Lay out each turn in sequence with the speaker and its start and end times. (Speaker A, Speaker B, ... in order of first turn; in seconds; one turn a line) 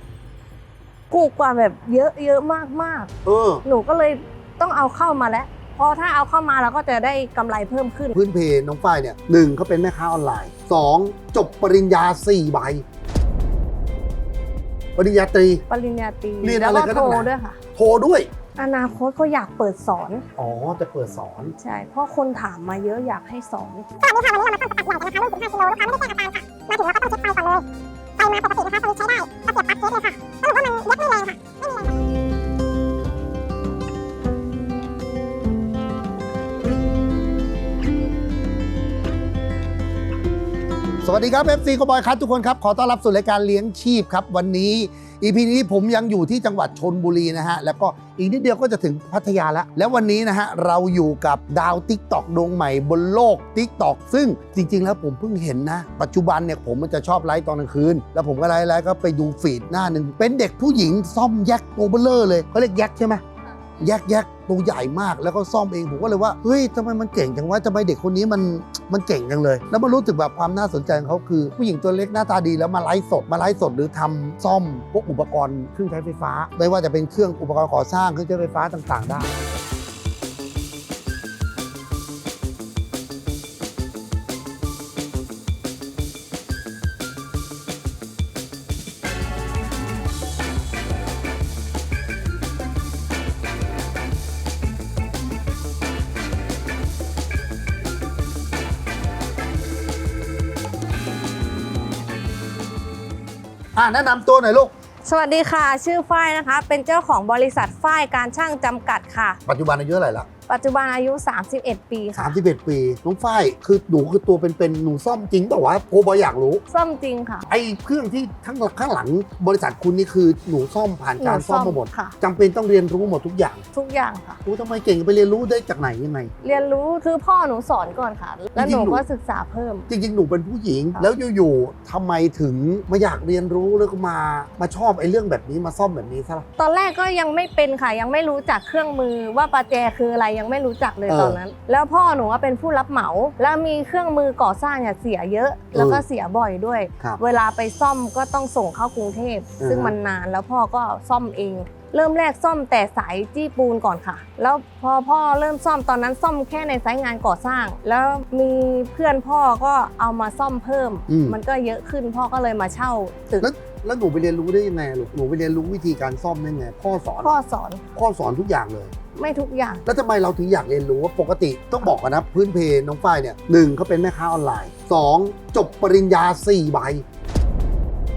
Speaker A: 1.1-3.1
Speaker B: 3.2-3.6
Speaker A: 3.6-8.2
Speaker B: 8.1-12.8
Speaker B: 15.0-15.7
Speaker A: 15.7-17.6
Speaker B: 16.4-18.3
Speaker A: 18.6-20.3
Speaker B: 20.4-21.6
Speaker A: 21.6-26.2
Speaker C: 26.8-27.4
Speaker C: 28.4-29.9
Speaker C: 30.6-31.3
Speaker B: 41.0-63.2
Speaker B: 63.8-79.3
Speaker B: 103.8-104.7
Speaker A: 105.0-109.4
Speaker B: 109.5-110.3
Speaker A: 110.5-112.4
Speaker B: 112.2-116.6
Speaker A: 116.7-117.5
Speaker B: 117.5-123.7
Speaker A: 121.2-122.2
Speaker A: 123.7-124.4
Speaker B: 124.5-126.3
Speaker A: 126.4-129.9
Speaker B: 128.6-129.0
Speaker B: 129.9-136.5
Speaker A: 136.6-163.5
Speaker B: 141.1-141.4
Speaker B: 145.7-146.1
Speaker B: 149.6-149.9
Speaker B: 161.1-161.4
Speaker B: 163.4-167.4
Speaker A: 167.2-167.8
Speaker B: 167.9-168.9
Speaker A: 169.2-169.8
Speaker B: 169.9-177.1